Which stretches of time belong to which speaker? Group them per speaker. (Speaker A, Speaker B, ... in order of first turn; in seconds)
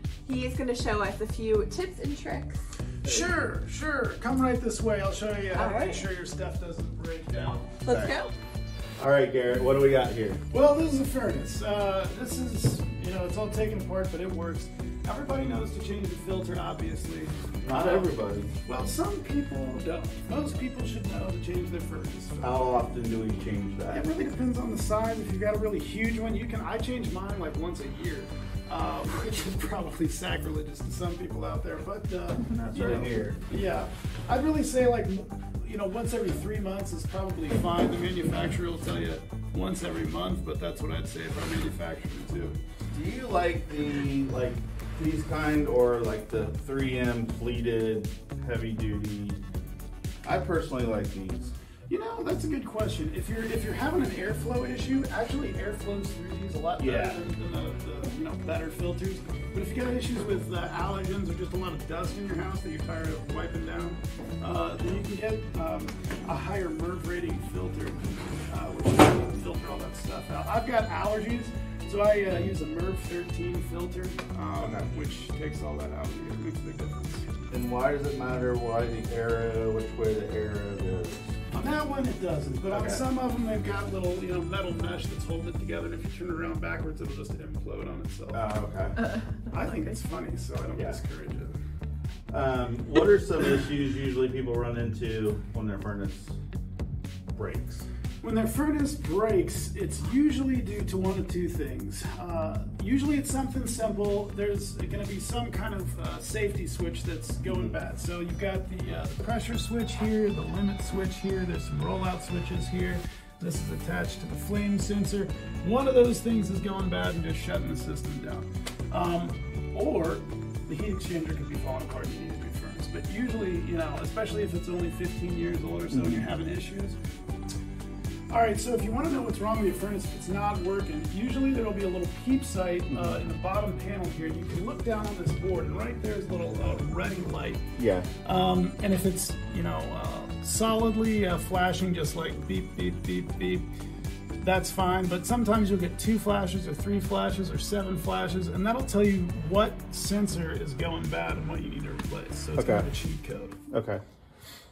Speaker A: 0.2-2.6, 5.5-6.0, 7.8-8.3
Speaker B: 3.0-3.3, 7.9-8.1, 9.0-10.4, 17.6-18.5, 22.4-24.1, 32.5-33.4, 42.9-49.4, 50.2-51.5, 56.8-57.2, 72.3-72.6, 74.6-74.9, 77.5-81.4, 82.7-83.0, 88.3-89.0, 92.3-96.4, 97.3-97.9, 107.4-107.8, 125.9-126.3, 132.9-133.2, 137.8-138.1, 152.6-152.9, 153.7-154.0
Speaker C: 3.0-7.7, 10.5-18.1, 18.6-22.7, 23.9-42.6, 51.9-77.3, 81.5-88.4, 89.5-91.5, 98.2-127.0, 128.3-137.7, 138.2-143.7, 144.4-153.6